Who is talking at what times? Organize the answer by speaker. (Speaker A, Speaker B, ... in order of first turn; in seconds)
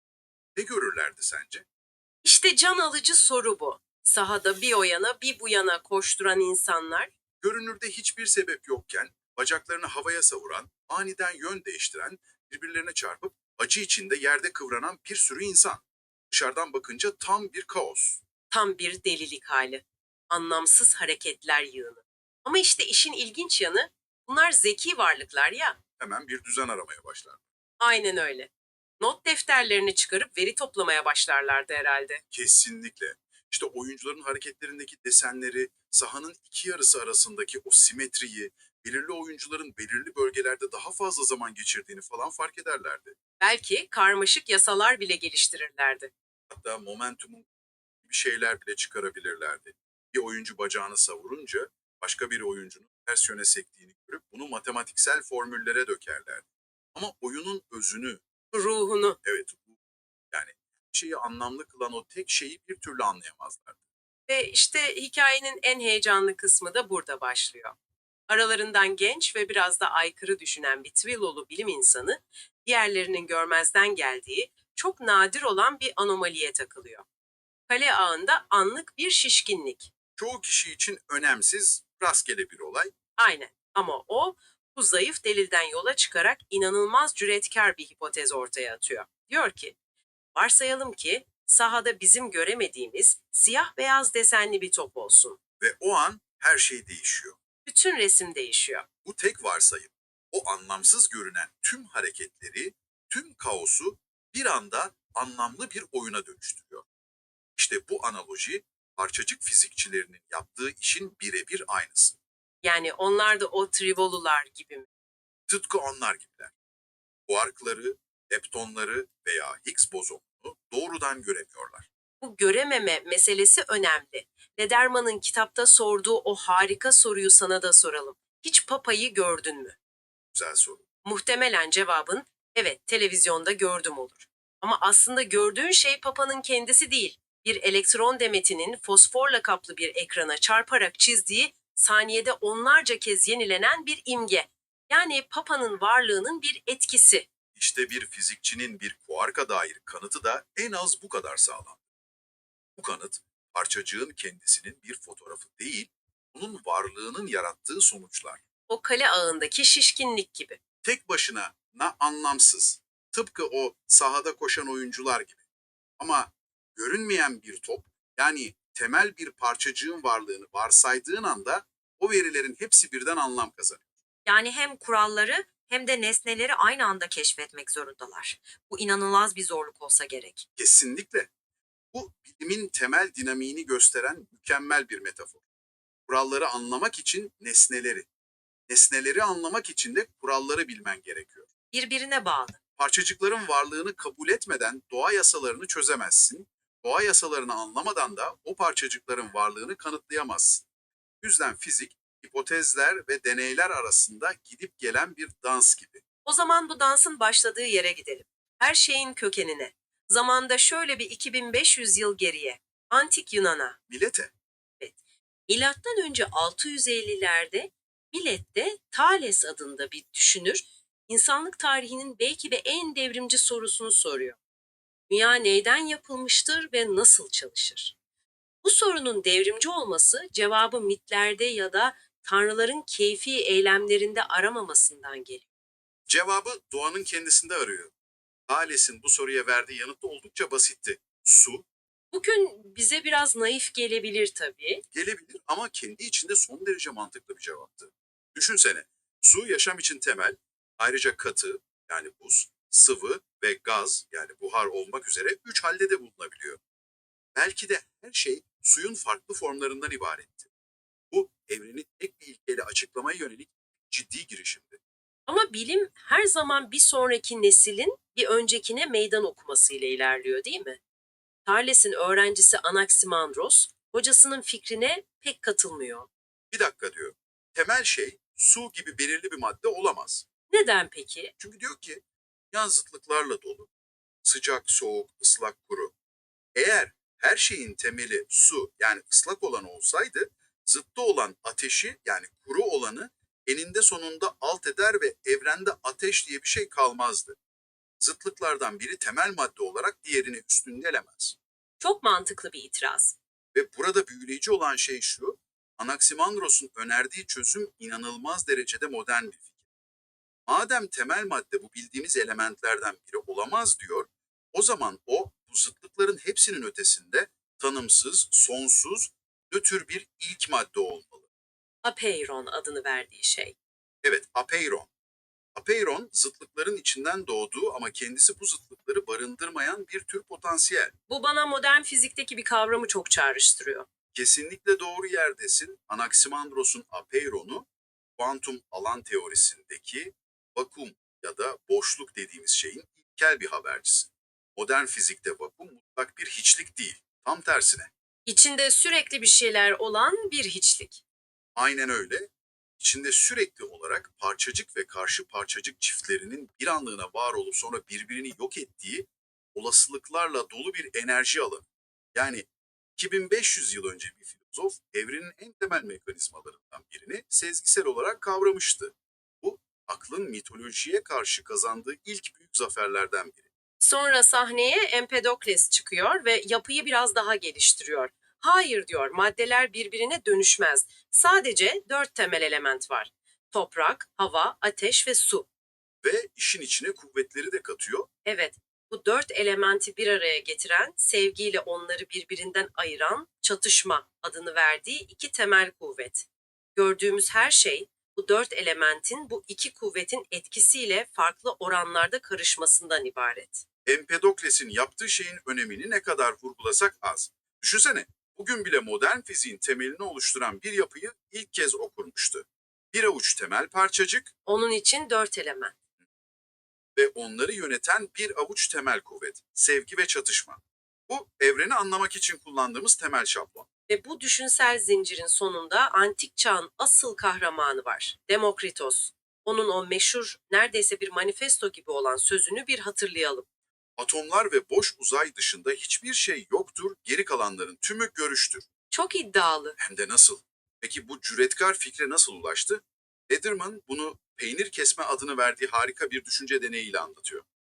Speaker A: 0.6-1.6, 7.4-18.2, 26.0-27.4, 32.3-43.2, 46.5-47.5, 48.0-58.2, 59.2-59.8, 60.3-63.8, 80.2-82.9, 95.6-97.4, 99.0-106.8, 107.6-112.2, 115.5-116.5, 117.3-121.9, 130.3-130.8, 147.6-151.8, 152.8-158.4, 160.8-165.4, 166.0-173.8, 180.6-181.3, 181.9-185.4, 186.1-188.1, 188.7-191.5, 192.8-200.7, 201.2-206.0, 213.9-214.3, 236.1-237.9, 238.5-241.7, 244.9-256.6, 257.4-260.5, 261.1-264.8, 276.5-280.2, 281.4-283.7, 284.2-285.9, 286.6-297.4, 298.0-301.4, 303.5-309.5, 310.5-321.3, 324.0-324.9, 325.6-330.9, 334.1-347.9, 351.6-373.5, 386.0-388.1, 403.9-414.3, 417.0-423.7, 434.0-438.7, 439.8-447.4
Speaker B: 2.2-7.1, 18.5-25.8, 27.8-32.2, 43.4-46.1, 58.5-59.2, 64.3-67.7, 68.3-77.0, 77.7-79.9, 83.2-89.8, 90.3-95.4, 97.7-98.9, 112.6-114.9, 122.2-129.8, 131.0-147.3, 158.7-160.6, 174.3-178.2, 178.8-179.6, 206.3-213.8, 215.5-224.4, 225.1-227.9, 228.6-235.4, 242.1-244.8, 265.3-270.8, 271.5-276.1, 280.5-281.3, 301.8-303.1, 321.8-323.5, 331.1-333.9, 348.3-351.0, 373.8-385.5, 388.2-403.6, 414.5-415.7, 423.9-433.4, 438.9-439.8
Speaker C: 174.3-180.4, 191.7-192.6